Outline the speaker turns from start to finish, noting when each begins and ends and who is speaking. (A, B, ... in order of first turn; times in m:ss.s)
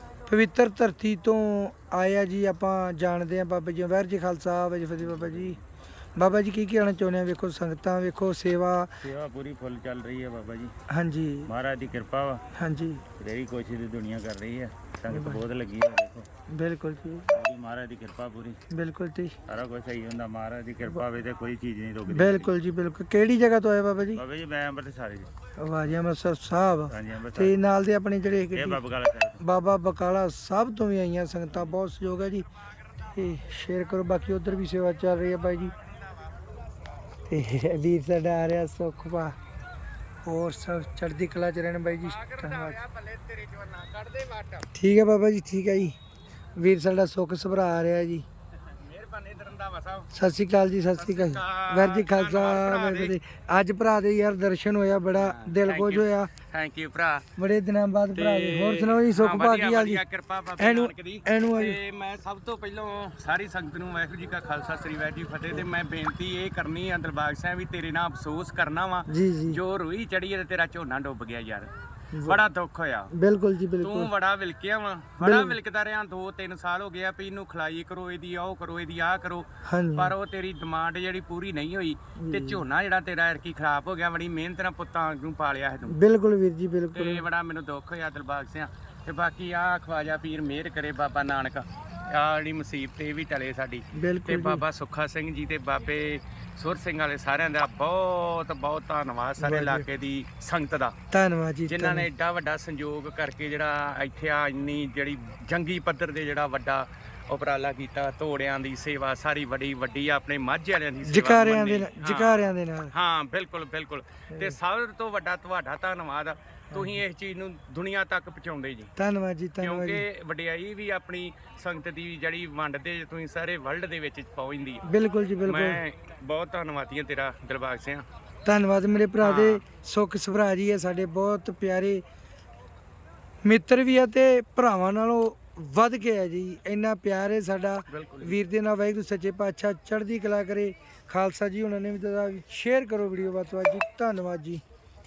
0:00.3-0:05.6 A
0:05.0-0:05.6 B
0:06.2-0:08.9 A
0:09.0-0:10.7 B
0:10.9-0:11.5 A
0:11.5-0:12.4 B
0:12.5-0:13.0 A
0:13.2-0:16.3 B
0:15.1-0:15.4 A
0:16.5-0:17.3 A
0:17.3-0:18.6 B
0:18.7-0:19.4 A
0:19.5-0:22.5 B
0:22.1-0:24.2 A
0:24.2-0:25.3 B
0:25.6-0:28.8 A
0:26.9-0:27.5 B
0:28.5-0:29.4 B
0:29.4-0:32.5 A
0:33.1-0:35.7 A
0:35.8-0:36.5 C
0:37.3-0:39.4 A
0:40.2-0:42.8 A
0:41.9-0:44.7 C
0:44.7-0:46.0 A
0:46.6-0:48.2 A
0:48.7-0:50.1 C
0:50.1-0:56.3 A
0:50.9-0:53.1 C
0:55.2-0:57.2 C
0:57.4-1:00.0 A
0:58.1-1:11.7 C
1:00.6-1:01.8 A
1:09.1-1:09.6 A
1:12.1-1:12.4 A
1:12.2-1:13.1 C
1:13.1-1:14.1 A
1:13.8-1:26.0 C
1:15.2-1:15.6 A
1:19.6-1:20.1 A
1:22.2-1:22.6 A
1:25.9-1:27.2 A
1:26.9-1:40.9 C
1:33.9-1:34.6 A
1:39.4-1:39.9 A
1:41.1-1:42.1 A
1:41.7-1:58.9 C
1:51.0-1:52.9 A
1:54.3-1:54.6 A
1:56.7-1:57.0 A
1:59.0-2:00.0 A
1:59.6-2:04.8 C
2:04.8-2:05.8 A
2:05.4-2:08.0 C
2:08.4-2:12.0 A
2:09.2-2:09.6 C
2:13.4-2:24.6 A
2:17.9-2:18.4 C